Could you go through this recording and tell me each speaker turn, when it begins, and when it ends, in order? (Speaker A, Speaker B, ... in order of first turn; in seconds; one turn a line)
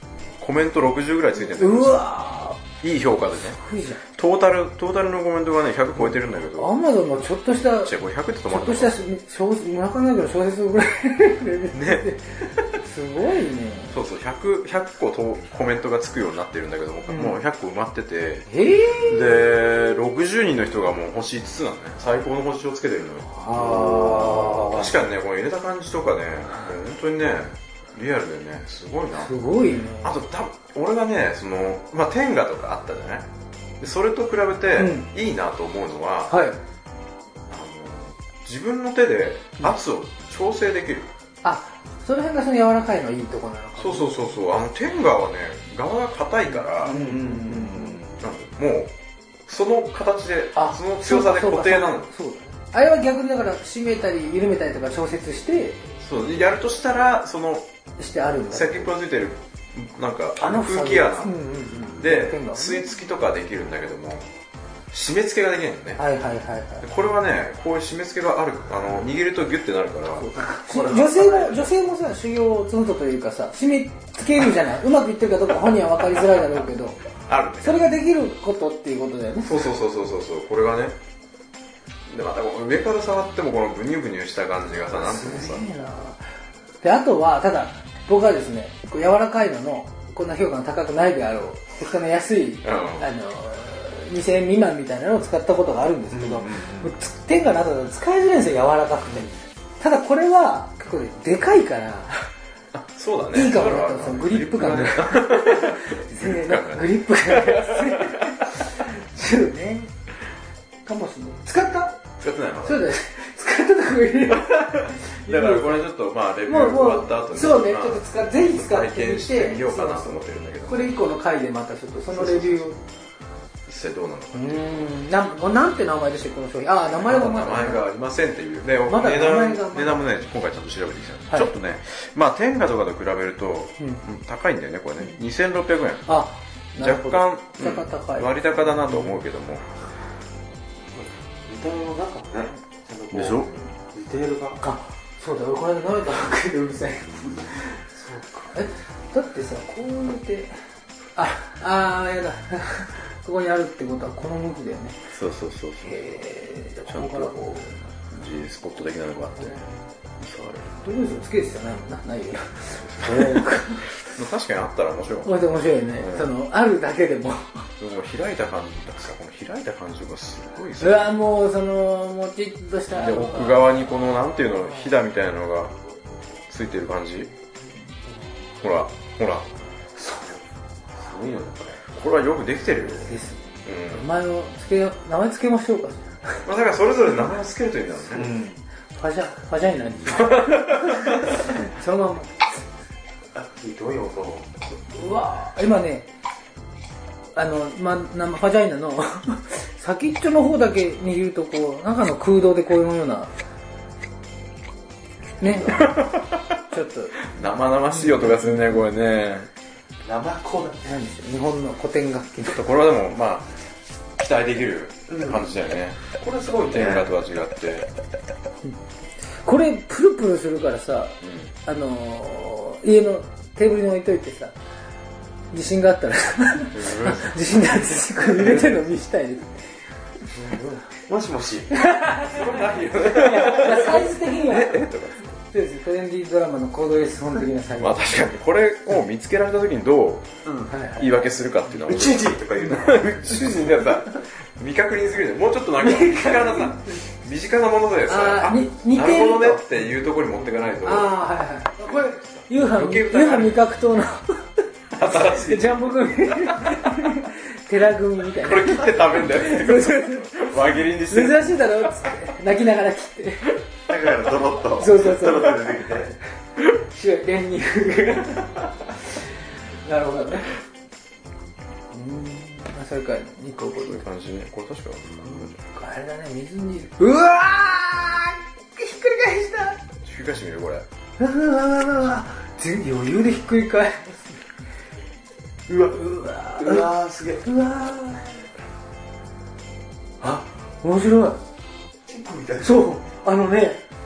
Speaker A: 0.4-2.0
Speaker B: 1.4-2.6
Speaker A: 2.8-3.6
Speaker B: 3.6-4.0
Speaker A: 4.1-6.7
Speaker B: 6.5-7.9
Speaker A: 7.8-9.0
Speaker B: 8.5-14.0
Speaker A: 11.7-12.1
Speaker A: 13.9-18.5
Speaker B: 17.1-17.4
Speaker B: 18.5-19.4
Speaker A: 19.0-29.3
Speaker B: 23.3-24.9
Speaker B: 29.2-30.2
Speaker A: 30.0-33.3
Speaker A: 33.8-36.4
Speaker B: 34.8-35.1
Speaker B: 36.3-36.6
Speaker A: 37.5-41.1
Speaker B: 41.4-44.3
Speaker A: 43.8-48.9
Speaker B: 46.8-48.0
Speaker C: 46.9-48.0
Speaker A: 49.5-52.1
Speaker B: 50.5-55.9
Speaker A: 56.0-57.7
Speaker B: 58.0-58.9
Speaker A: 58.5-61.4
Speaker B: 60.4-62.8
Speaker A: 62.0-64.3
Speaker A: 64.9-66.0
Speaker B: 66.0-66.9
Speaker A: 66.8-71.7
Speaker B: 70.1-77.0
Speaker A: 77.2-77.9
Speaker B: 77.6-79.7
Speaker A: 79.4-81.0
Speaker A: 82.1-85.7
Speaker B: 84.9-86.2
Speaker B: 86.8-102.3
Speaker A: 92.6-93.1
Speaker C: 96.1-96.9
Speaker A: 102.7-108.3
Speaker B: 103.3-109.9
Speaker B: 110.8-112.0
Speaker A: 112.2-112.9
Speaker B: 112.6-115.8
Speaker A: 114.3-120.9
Speaker B: 116.4-122.8
Speaker A: 122.1-122.7
Speaker A: 123.7-124.9
Speaker B: 124.3-127.8
Speaker A: 126.9-136.1
Speaker B: 128.9-130.2
Speaker B: 136.1-139.1
Speaker A: 136.8-139.7
Speaker C: 140.9-144.6
Speaker A: 143.1-143.5
Speaker B: 144.6-150.6
Speaker B: 151.2-155.0
Speaker A: 155.1-156.1
Speaker B: 155.8-157.7
Speaker A: 156.9-160.8
Speaker B: 160.8-163.9
Speaker A: 162.8-163.4
Speaker A: 164.0-165.3
Speaker B: 165.2-167.7
Speaker A: 166.0-166.3
Speaker A: 167.8-171.1
Speaker B: 170.8-173.8
Speaker A: 172.9-175.7
Speaker A: 176.5-177.3
Speaker A: 178.6-179.5
Speaker C: 179.9-180.4
Speaker C: 180.9-181.8
Speaker A: 181.9-183.1
Speaker B: 183.0-186.4
Speaker A: 183.6-184.1
Speaker A: 186.4-188.3
Speaker C: 188.1-188.6
Speaker B: 188.9-192.4
Speaker A: 190.2-191.0
Speaker C: 193.3-194.5
Speaker B: 194.9-196.1
Speaker B: 197.3-203.3
Speaker B: 205.4-206.1
Speaker A: 205.6-206.4
Speaker B: 206.7-207.2
Speaker A: 207.2-209.5
Speaker B: 207.9-208.5
Speaker C: 210.0-210.9
Speaker B: 210.8-212.6
Speaker A: 212.4-213.5
Speaker A: 214.2-216.1
Speaker C: 215.1-215.4
Speaker C: 216.1-217.1
Speaker A: 216.6-217.9
Speaker B: 219.4-224.5
Speaker A: 221.2-221.5
Speaker B: 225.5-229.6
Speaker A: 226.7-227.4
Speaker A: 228.4-228.8
Speaker C: 230.3-231.8
Speaker B: 231.7-234.9
Speaker A: 232.2-235.3
Speaker B: 235.4-238.1
Speaker A: 237.8-240.3
Speaker C: 240.4-240.7
Speaker B: 240.7-241.1
Speaker A: 240.9-251.2
Speaker C: 241.8-243.9
Speaker B: 245.8-247.0
Speaker B: 248.1-249.7
Speaker B: 250.8-260.5
Speaker A: 251.8-253.6
Speaker A: 254.9-255.9
Speaker A: 258.4-261.9
Speaker B: 261.1-263.6
Speaker C: 263.9-266.1
Speaker B: 264.8-265.9
Speaker B: 266.8-269.2
Speaker B: 269.8-270.5
Speaker B: 271.9-274.0
Speaker A: 273.8-275.6
Speaker B: 275.2-279.8
Speaker A: 280.0-280.9
Speaker B: 281.2-284.4
Speaker B: 285.7-286.9
Speaker C: 286.6-287.5
Speaker B: 287.4-288.2
Speaker B: 290.2-291.4
Speaker C: 292.1-292.8
Speaker B: 292.6-293.8